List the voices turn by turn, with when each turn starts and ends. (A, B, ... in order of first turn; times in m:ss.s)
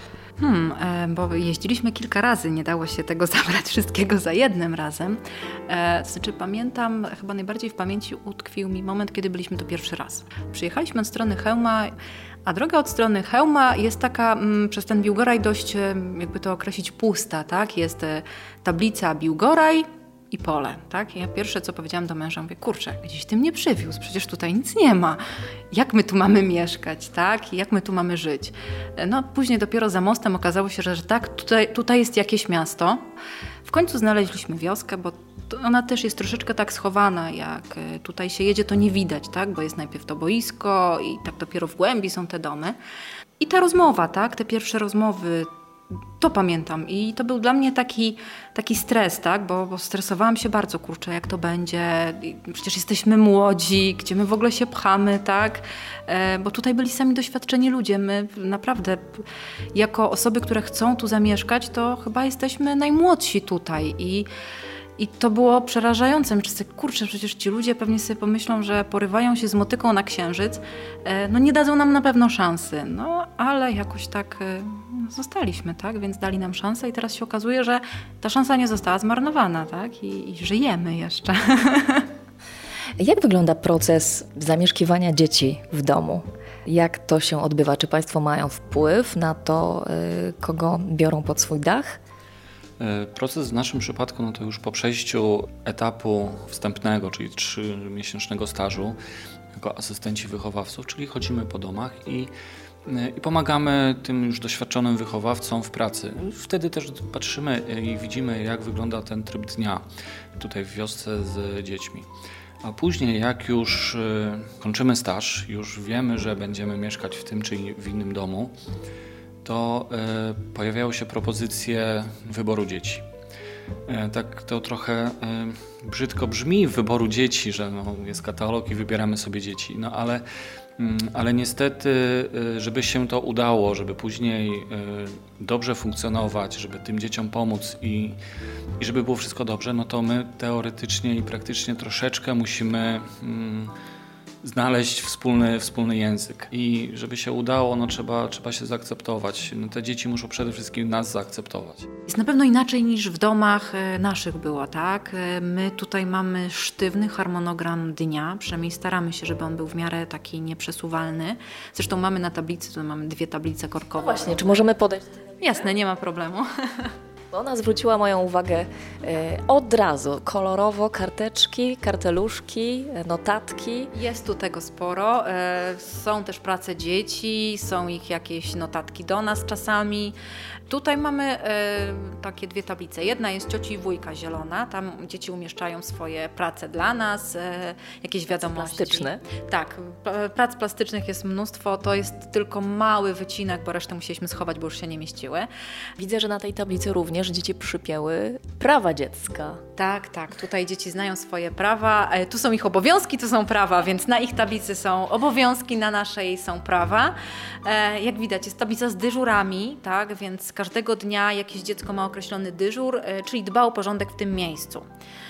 0:00.4-0:33.0 A
0:33.6-0:42.8 A
0:43.4-0:45.5 A
0:46.2-1:04.3 A
1:05.0-1:22.1 A
1:23.0-1:32.0 B
1:32.8-1:39.0 C
1:39.5-1:42.3 C
1:42.8-1:49.8 C
1:50.4-1:52.1 C
1:52.6-1:58.5 C
1:59.4-2:03.1 C
2:03.9-2:10.2 C
2:10.8-2:18.2 C
2:18.8-2:23.7 C
2:24.4-2:31.9 C
2:32.1-2:44.6 A
2:44.0-2:45.6 B
2:45.4-2:46.9 A
2:47.3-2:53.9 B
2:53.9-3:00.2 A
3:00.7-3:15.5 A
3:08.3-3:09.2 B
3:16.0-3:19.6 B
3:19.8-3:34.8 A